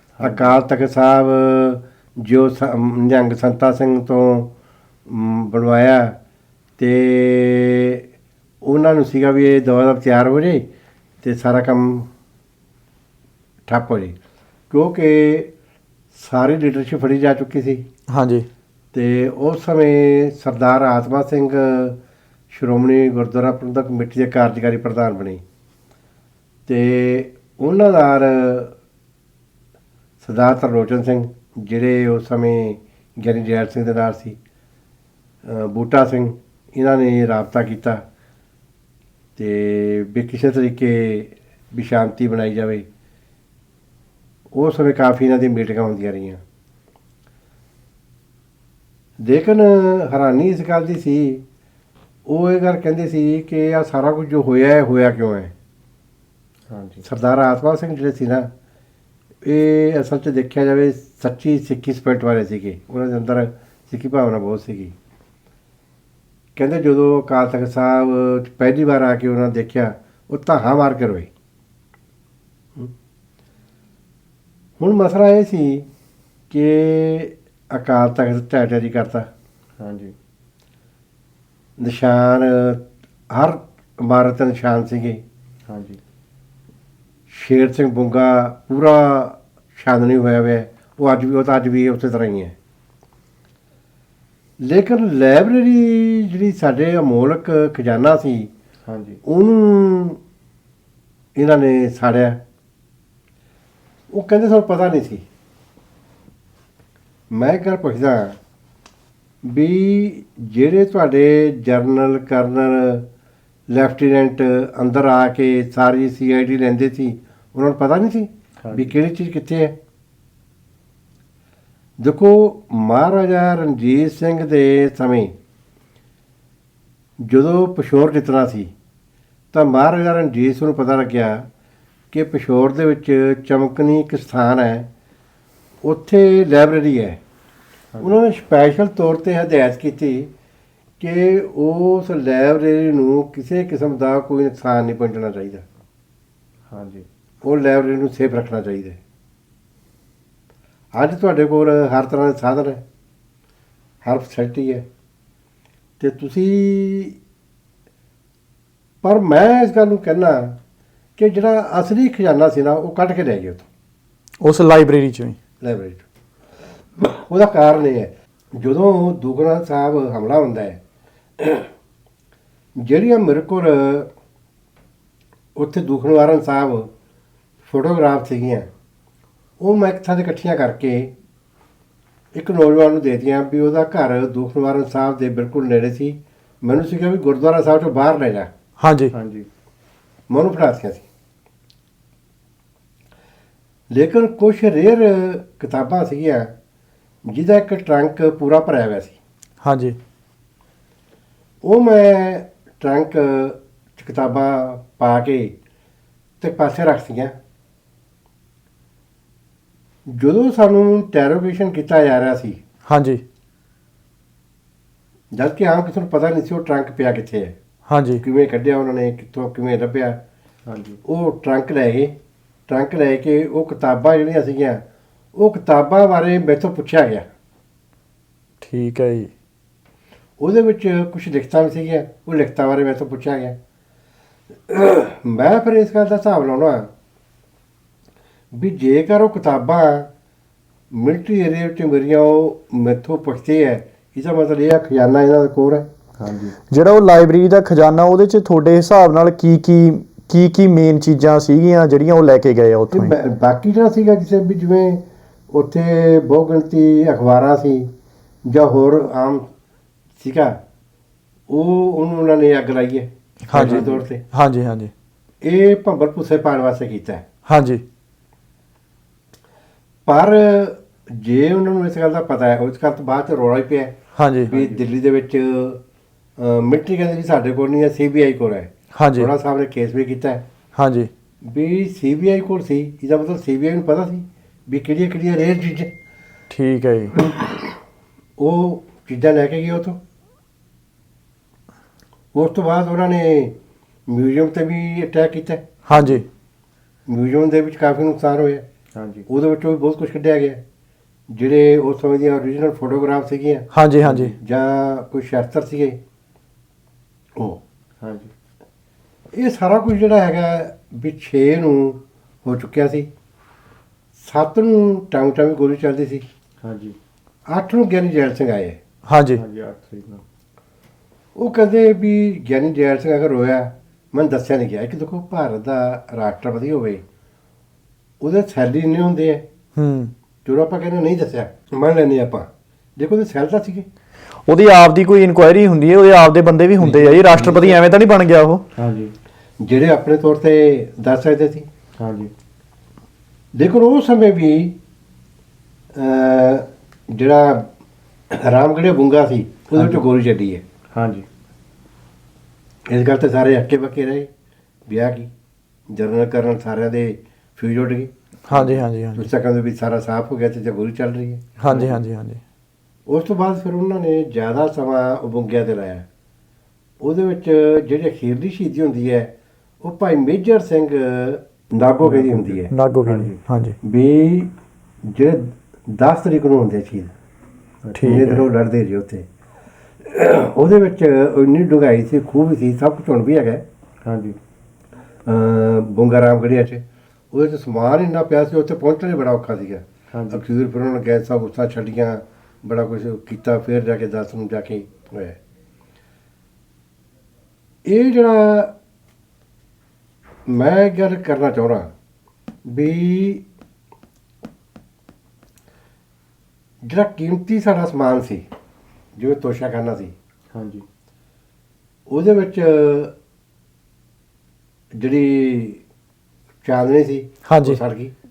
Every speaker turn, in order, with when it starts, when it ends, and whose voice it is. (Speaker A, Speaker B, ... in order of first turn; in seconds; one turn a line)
Speaker A: 0.2-0.6
Speaker B: 0.2-4.5
Speaker B: 5.1-6.2
Speaker B: 6.8-8.0
Speaker B: 8.6-10.7
Speaker B: 11.2-12.1
Speaker B: 13.7-14.2
Speaker B: 14.7-15.5
Speaker B: 16.1-17.9
Speaker C: 18.1-18.5
Speaker B: 18.9-22.0
Speaker B: 22.5-25.4
Speaker B: 26.7-28.7
Speaker B: 30.2-34.4
Speaker B: 35.5-38.0
Speaker B: 39.4-42.9
Speaker B: 44.5-46.4
Speaker B: 49.2-51.4
Speaker B: 52.3-55.5
Speaker A: 56.7-57.0
Speaker B: 57.0-58.5
Speaker B: 59.4-64.9
Speaker B: 66.6-71.3
Speaker B: 74.8-75.9
Speaker B: 76.5-79.3
Speaker A: 79.8-80.2
Speaker B: 81.8-85.2
Speaker A: 85.7-86.0
Speaker B: 87.3-92.5
Speaker B: 94.6-98.5
Speaker A: 98.8-99.2
Speaker B: 99.2-100.2
Speaker B: 101.3-102.4
Speaker B: 104.1-105.2
Speaker B: 107.3-108.4
Speaker B: 109.4-113.1
Speaker B: 113.7-119.8
Speaker A: 118.6-119.0
Speaker B: 122.0-125.3
Speaker B: 127.2-128.7
Speaker B: 129.5-131.5
Speaker B: 132.1-134.9
Speaker B: 135.8-137.2
Speaker A: 137.9-138.2
Speaker B: 138.0-140.3
Speaker B: 141.0-145.7
Speaker A: 146.7-147.1
Speaker B: 147.4-149.0
Speaker B: 150.9-152.8
Speaker B: 154.0-154.8
Speaker B: 156.0-157.2
Speaker B: 159.0-160.6
Speaker B: 161.2-163.7
Speaker C: 164.4-165.4
Speaker B: 165.6-166.1
Speaker B: 167.0-170.8
Speaker B: 171.4-171.7
Speaker B: 172.8-174.1
Speaker B: 175.6-176.9
Speaker B: 177.7-178.7
Speaker B: 179.6-181.1
Speaker B: 182.3-188.5
Speaker C: 188.8-189.1
Speaker A: 189.1-189.5
Speaker B: 190.3-191.1
Speaker B: 193.9-196.5
Speaker B: 197.2-199.2
Speaker C: 199.6-200.0
Speaker B: 201.6-205.6
Speaker B: 206.4-207.3
Speaker B: 210.1-212.6
Speaker C: 212.9-213.2
Speaker B: 215.3-217.6
Speaker C: 217.9-218.2
Speaker B: 218.2-220.2
Speaker A: 220.7-221.0
Speaker B: 221.1-222.2
Speaker B: 222.7-224.8
Speaker B: 225.3-227.3
Speaker C: 228.6-229.3
Speaker B: 230.4-233.6
Speaker B: 234.7-236.9
Speaker B: 238.5-240.1
Speaker B: 240.9-245.9
Speaker A: 246.2-246.6
Speaker C: 246.7-253.1
Speaker B: 252.9-257.9
Speaker B: 258.4-259.5
Speaker B: 260.2-260.6
Speaker B: 261.5-264.2
Speaker C: 263.5-264.9
Speaker A: 263.5-264.0
Speaker B: 265.4-267.2
Speaker C: 267.5-267.8
Speaker B: 270.1-274.0
Speaker C: 274.1-274.5
Speaker B: 274.5-275.8
Speaker A: 274.5-274.9
Speaker B: 276.4-280.4
Speaker C: 278.9-279.3
Speaker C: 280.8-281.1
Speaker B: 281.4-285.9
Speaker C: 286.5-287.2
Speaker B: 288.4-290.0
Speaker B: 292.3-293.6
Speaker B: 294.1-295.6
Speaker C: 295.9-296.2
Speaker B: 297.1-298.6
Speaker A: 298.9-299.3
Speaker B: 299.3-300.6
Speaker B: 301.3-303.7
Speaker C: 303.7-304.3
Speaker A: 304.0-304.4
Speaker B: 304.4-306.0
Speaker A: 308.0-308.3
Speaker B: 309.3-313.1
Speaker B: 314.2-316.2
Speaker A: 316.6-317.0
Speaker B: 317.5-318.8
Speaker C: 319.1-319.4
Speaker A: 319.3-320.2
Speaker B: 321.4-327.0
Speaker B: 328.2-329.4
Speaker C: 329.8-330.1
Speaker B: 330.4-333.9
Speaker C: 334.5-338.6
Speaker B: 336.8-337.8
Speaker A: 338.8-339.1
Speaker B: 339.6-341.7
Speaker A: 342.0-342.3
Speaker B: 343.5-344.8
Speaker B: 345.9-347.7
Speaker B: 348.3-350.6
Speaker A: 349.8-350.1
Speaker A: 350.9-351.3
Speaker B: 352.9-354.3
Speaker B: 354.9-355.3
Speaker B: 355.9-358.1
Speaker C: 358.5-359.3
Speaker A: 358.5-358.9
Speaker B: 359.1-361.9
Speaker C: 361.6-362.4
Speaker B: 363.1-366.1
Speaker B: 367.0-372.7
Speaker A: 372.0-373.4
Speaker C: 372.7-373.8
Speaker B: 373.8-374.5
Speaker B: 375.1-377.1
Speaker A: 377.8-378.2
Speaker C: 377.9-378.5
Speaker B: 378.0-379.3
Speaker B: 380.0-383.6
Speaker A: 384.0-384.4
Speaker B: 385.3-395.4
Speaker A: 390.1-390.5
Speaker B: 397.9-398.7
Speaker B: 400.5-401.9
Speaker B: 402.6-403.4
Speaker B: 406.8-408.5
Speaker B: 409.2-410.1
Speaker A: 410.5-410.9
Speaker B: 412.1-413.1
Speaker B: 414.9-415.8
Speaker B: 416.6-418.1
Speaker C: 417.5-417.8